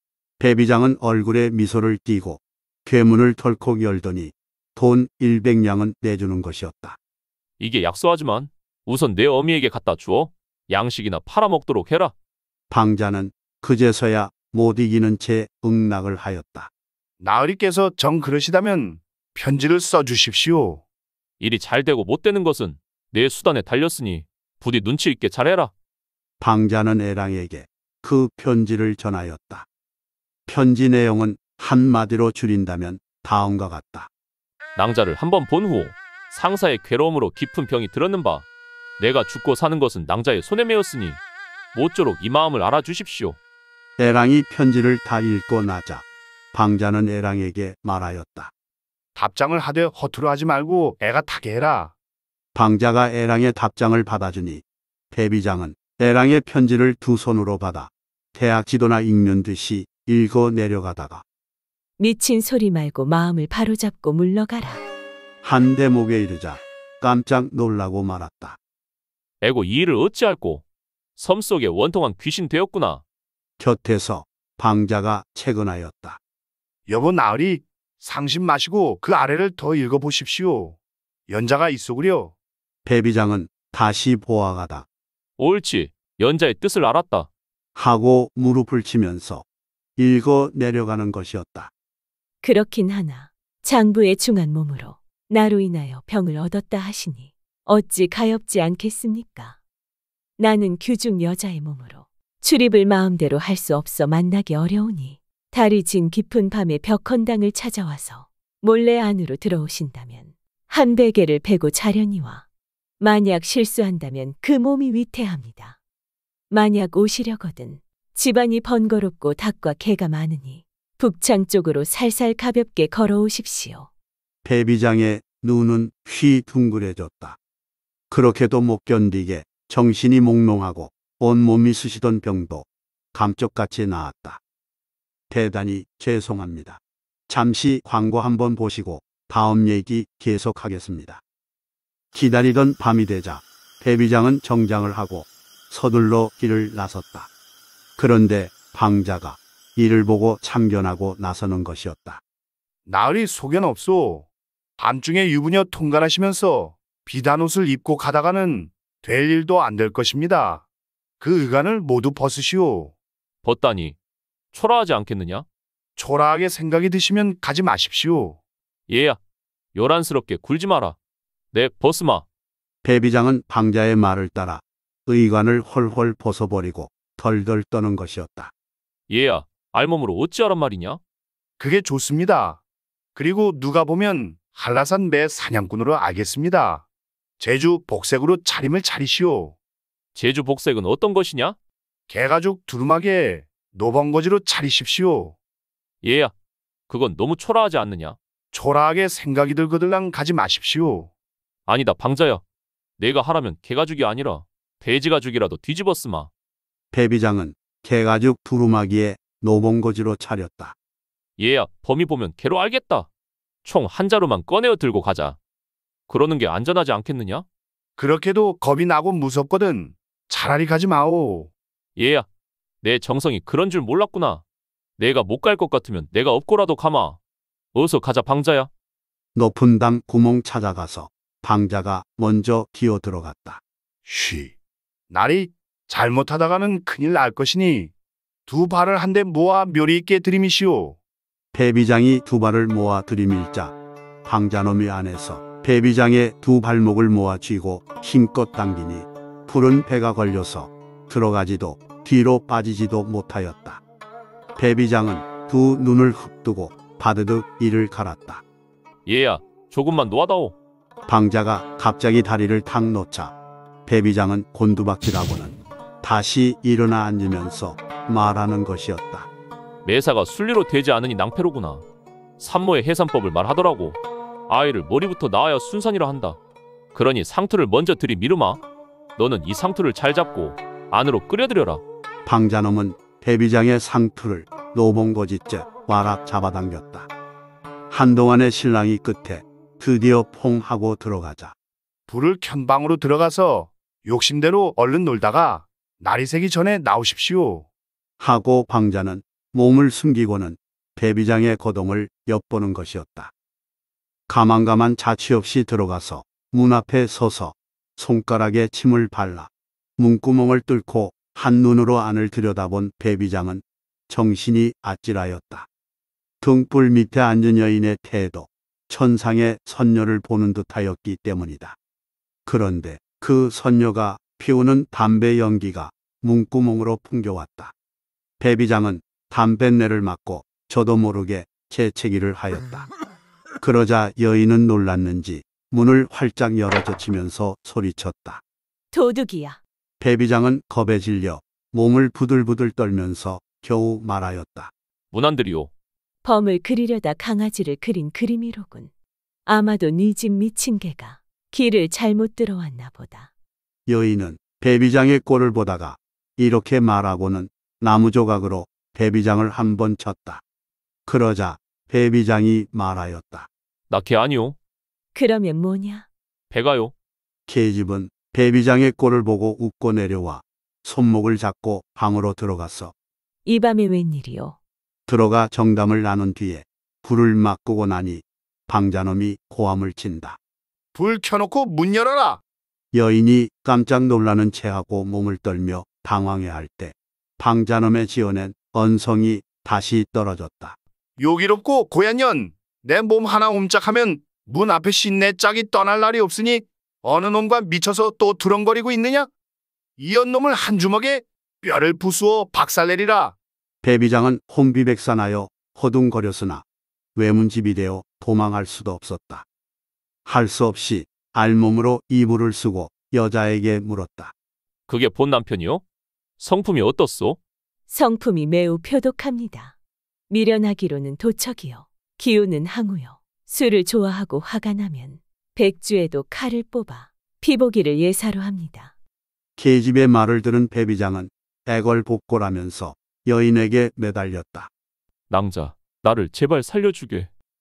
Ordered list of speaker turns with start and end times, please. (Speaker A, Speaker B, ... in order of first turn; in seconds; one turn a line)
Speaker A: 0.4-7.0
Speaker B: 7.6-12.1
Speaker A: 12.7-16.7
Speaker C: 17.2-20.8
Speaker B: 21.4-25.7
Speaker A: 26.4-29.7
Speaker A: 30.5-34.1
Speaker B: 34.8-38.5
Speaker B: 39.0-41.2
Speaker B: 41.7-43.4
Speaker A: 44.0-48.5
Speaker C: 49.2-51.9
Speaker A: 52.5-61.2
Speaker D: 62.0-64.8
Speaker A: 65.4-68.6
Speaker B: 69.4-70.6
Speaker B: 71.2-73.0
Speaker A: 73.6-76.2
Speaker C: 76.9-80.8
Speaker C: 81.3-82.3
Speaker A: 82.8-84.9
Speaker B: 85.4-87.3
Speaker A: 87.8-89.4
Speaker A: 90.0-91.7
Speaker D: 92.4-99.6
Speaker D: 100.4-112.5
Speaker D: 113.0-115.8
Speaker D: 116.5-123.9
Speaker A: 124.4-127.4
Speaker A: 128.1-134.4
Speaker A: 135.3-141.2
Speaker A: 142.1-147.3
Speaker A: 148.0-152.2
Speaker C: 152.9-154.3
Speaker C: 154.8-160.7
Speaker C: 161.2-162.9
Speaker B: 163.4-164.0
Speaker B: 164.5-165.4
Speaker C: 166.0-168.4
Speaker B: 168.9-169.2
Speaker B: 169.8-171.0
Speaker B: 171.5-172.2
Speaker A: 172.8-178.5
Speaker B: 179.1-181.0
Speaker C: 181.6-182.6
Speaker C: 183.2-186.9
Speaker C: 187.4-189.6
Speaker B: 190.2-191.6
Speaker C: 192.1-195.4
Speaker B: 196.0-196.3
Speaker B: 196.9-198.2
Speaker C: 198.5-201.1
Speaker B: 201.7-202.4
Speaker B: 203.0-206.3
Speaker A: 206.9-210.8
Speaker B: 211.4-213.1
Speaker B: 213.7-215.4
Speaker B: 216.1-217.4
Speaker C: 218.0-221.5
Speaker B: 222.0-222.3
Speaker B: 222.8-224.4
Speaker B: 225.0-227.2
Speaker B: 227.8-228.7
Speaker A: 229.3-233.6
Speaker C: 234.1-234.5
Speaker C: 235.1-237.9
Speaker C: 238.5-241.0
Speaker A: 241.5-253.8
Speaker A: 254.6-258.4
Speaker B: 259.1-260.6
Speaker A: 261.1-263.3
Speaker A: 263.9-269.3
Speaker B: 269.8-271.8
Speaker B: 272.4-276.4
Speaker B: 276.9-278.6
Speaker B: 279.2-281.8
Speaker A: 282.3-287.1
Speaker A: 287.9-291.5
Speaker C: 292.1-297.7
Speaker A: 298.2-303.3
Speaker A: 304.3-315.7
Speaker A: 316.4-321.8
Speaker A: 322.5-327.7
Speaker A: 328.4-332.9
Speaker A: 333.6-338.4
Speaker D: 338.9-339.6
Speaker A: 340.0-344.7
Speaker B: 345.1-345.7
Speaker D: 346.2-348.9
Speaker D: 349.5-353.3
Speaker A: 353.9-360.4
Speaker A: 361.1-363.5
Speaker B: 363.9-364.6
Speaker D: 365.1-366.1
Speaker B: 366.5-366.9
Speaker A: 367.5-372.9
Speaker D: 373.4-374.6
Speaker A: 375.1-380.4
Speaker C: 380.9-382.4
Speaker A: 382.9-390.8
Speaker C: 391.2-399.3
Speaker C: 400.0-403.4
Speaker A: 403.8-406.6
Speaker A: 407.2-409.4
Speaker A: 410.3-414.3
Speaker B: 414.9-415.8
Speaker B: 416.4-417.4
Speaker D: 417.9-419.8
Speaker D: 420.3-428.9
Speaker A: 429.6-434.7
Speaker B: 435.3-437.3